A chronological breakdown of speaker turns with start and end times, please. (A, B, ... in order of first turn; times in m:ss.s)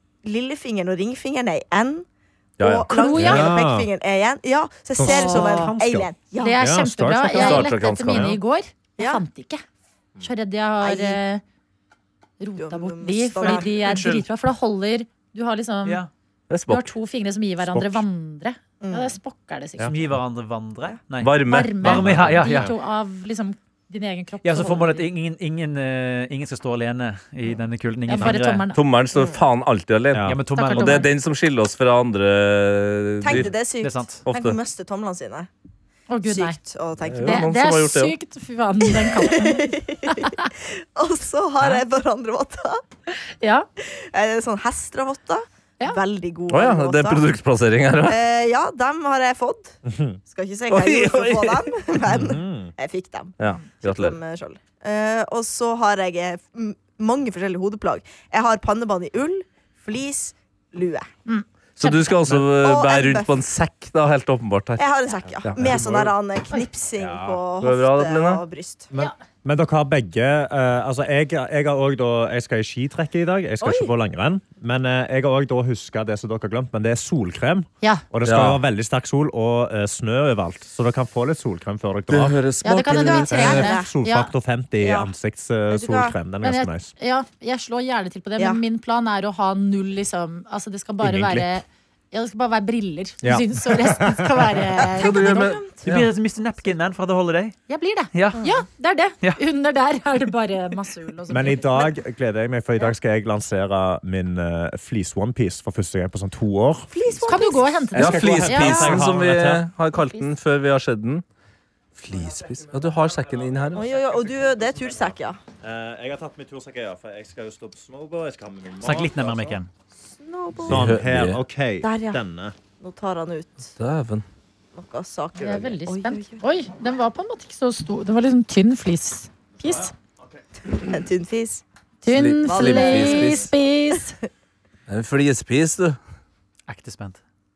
0:00.2-0:02.1 A
0:02.6-0:03.5 B
0:02.6-0:06.6 A
0:02.9-0:03.5 C
0:03.2-0:03.9 D
0:05.0-0:08.4 D
0:05.0-0:05.8 C
0:06.4-0:09.6 C
0:07.4-0:08.4 B
0:10.2-0:11.4 C
0:10.8-0:11.2 A
0:12.4-0:16.0 C
0:12.6-0:14.1 A
0:13.9-0:14.2 E
0:15.8-0:16.1 E
0:16.5-0:16.9 B
0:16.7-0:19.9 C
0:17.7-0:18.0 B
0:18.8-0:19.2 A
0:19.9-0:22.7 E
0:21.2-0:22.2 B
0:21.5-0:25.1 C
0:21.9-0:22.7 D
0:24.4-0:28.7 E
0:28.1-0:28.8 C
0:28.7-0:33.5 B
0:29.2-0:29.4 A
0:30.1-0:30.4 D
0:30.2-0:31.1 E
0:30.6-0:31.1 C
0:33.2-0:35.5 A
0:33.8-0:34.2 E
0:34.3-0:34.6 B
0:36.1-0:36.6 C
0:36.2-0:37.5 A
0:37.0-0:38.1 B
0:37.2-0:40.5 C
0:38.9-0:42.8 A
0:43.4-0:43.7 C
0:43.8-0:47.3 A
0:46.5-0:48.2 B
0:48.0-1:01.1 A
0:49.8-0:50.2 D
0:50.7-0:51.8 B
0:52.1-0:52.7 D
0:53.4-0:54.2 B
1:01.3-1:02.1 C
1:01.8-1:04.8 B
1:02.4-1:03.3 A
1:04.8-1:08.9 A
1:05.4-1:06.1 B
1:05.6-1:06.1 D
1:07.0-1:07.4 D
1:07.6-1:08.4 B
1:08.9-1:22.4 D
1:13.6-1:13.9 A
1:18.2-1:18.6 B
1:22.1-1:23.3 B
1:22.6-1:24.3 C
1:22.9-1:23.9 A
1:23.3-1:26.9 D
1:24.8-1:25.1 A
1:25.7-1:26.2 A
1:26.4-1:35.5 C
1:31.0-1:31.6 D
1:33.2-1:34.7 D
1:34.8-1:35.9 A
1:34.9-1:36.1 B
1:35.8-1:37.6 E
1:37.7-1:41.9 C
1:38.1-1:38.4 E
1:41.3-1:49.6 D
1:46.9-1:47.9 A
1:47.3-1:49.0 C
1:48.0-1:51.2 B
1:48.7-1:49.0 A
1:49.9-1:50.3 C
1:52.0-1:53.9 B
1:52.1-1:59.6 D
1:53.7-1:55.4 A
1:58.8-1:59.7 E
2:00.2-2:01.0 A
2:00.6-2:01.4 B
2:00.6-2:02.6 D
2:01.8-2:02.2 A
2:02.8-2:03.7 A
2:03.8-2:04.2 B
2:04.8-2:06.4 A
2:05.4-2:05.7 D
2:05.4-2:09.9 C
2:09.6-2:10.4 D
2:10.7-2:11.6 A
2:12.0-2:14.2 C
2:12.1-2:13.5 B
2:12.4-2:14.0 A
2:14.9-2:16.0 B
2:16.7-2:17.2 E